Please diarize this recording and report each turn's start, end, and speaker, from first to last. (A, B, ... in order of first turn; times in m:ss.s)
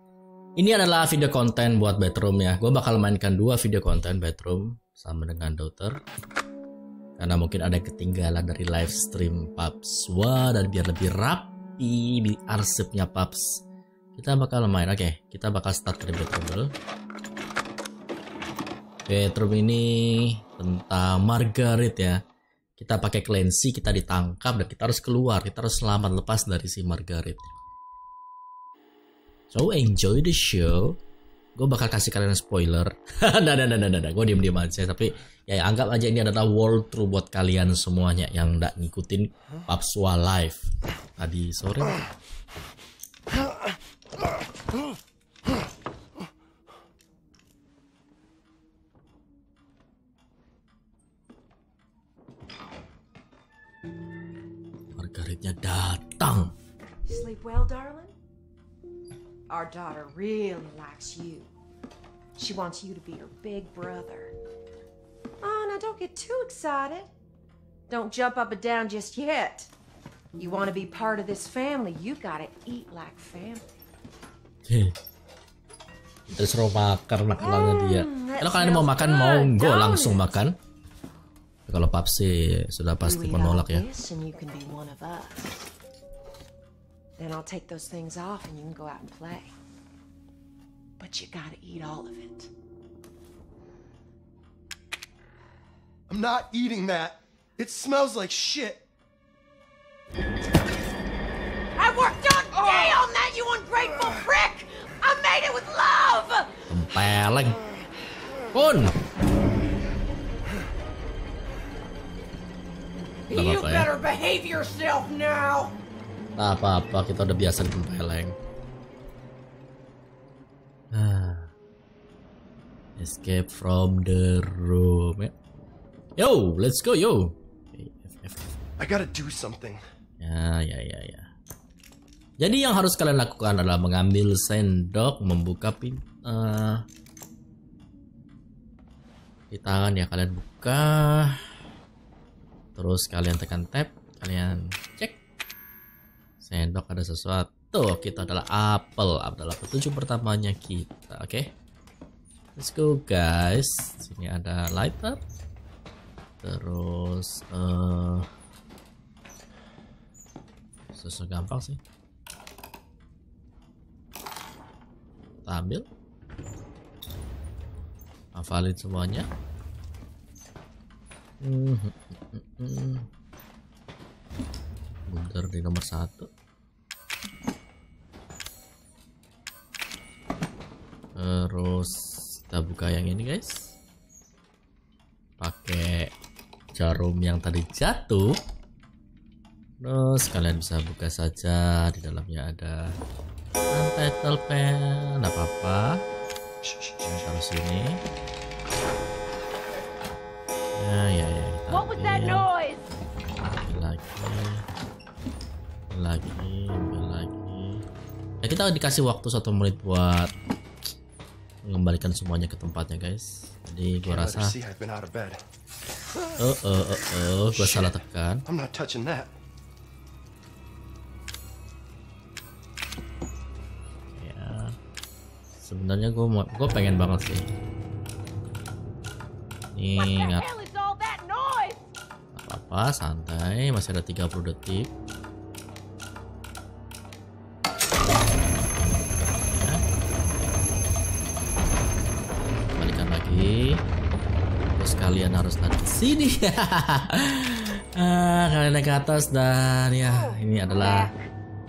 0:00.6-0:06.0 A
0:07.2-0:13.6 A
0:14.2-0:16.7 A
0:19.1-0:22.2 A
0:22.8-0:27.5 A
0:29.5-0:31.0 A
0:31.6-0:40.6 A
0:41.2-0:42.0 A
0:55.0-0:56.5 A
0:57.0-0:58.1 B
0:59.5-1:01.5 B
1:02.4-1:04.3 B
1:05.4-1:07.1 B
1:07.9-1:09.7 B
1:10.4-1:13.8 B
1:14.6-1:15.0 A
1:16.3-1:20.6 A
1:17.3-1:20.4 B
1:21.7-1:23.8 A
1:23.0-1:25.7 B
1:27.2-1:29.5 B
1:31.0-1:32.5 B
1:36.1-1:38.8 C
1:41.8-1:46.6 B
1:46.7-1:47.6 A
1:48.5-1:49.0 A
1:53.3-1:55.8 B
1:53.3-1:53.9 A
1:56.4-1:58.4 A
2:00.9-2:01.5 A
2:03.0-2:05.3 A
2:06.2-2:08.6 A
2:08.8-2:09.8 C
2:10.2-2:11.2 A
2:12.4-2:16.8 A
2:19.5-2:21.4 A
2:22.8-2:25.2 A
2:26.4-2:31.5 A
2:32.6-2:35.2 A
2:36.4-2:38.3 A
2:40.9-2:41.8 A
2:45.4-2:45.8 A
2:48.3-2:49.3 A
2:51.4-2:53.1 A
2:55.1-2:56.3 A
3:01.2-3:03.7 A
3:05.4-3:06.1 A
3:06.7-3:08.3 A
3:09.8-3:12.8 A
3:13.7-3:15.9 A
3:16.6-3:17.1 C
3:17.0-3:18.0 A
3:20.7-3:22.5 A
3:21.7-3:22.8 B
3:23.4-3:24.6 A
3:25.9-3:27.8 A
3:28.4-3:30.3 A
3:31.6-3:34.5 A
3:34.0-3:35.4 C
3:36.4-3:38.4 A
3:37.5-3:39.3 C
3:44.1-3:44.8 A
3:45.6-3:47.5 A
3:49.7-3:50.4 A
3:49.9-3:51.9 B
3:52.3-3:54.9 A
3:59.5-3:59.8 A
4:02.8-4:03.8 A
4:04.8-4:11.1 A
4:10.0-4:11.3 B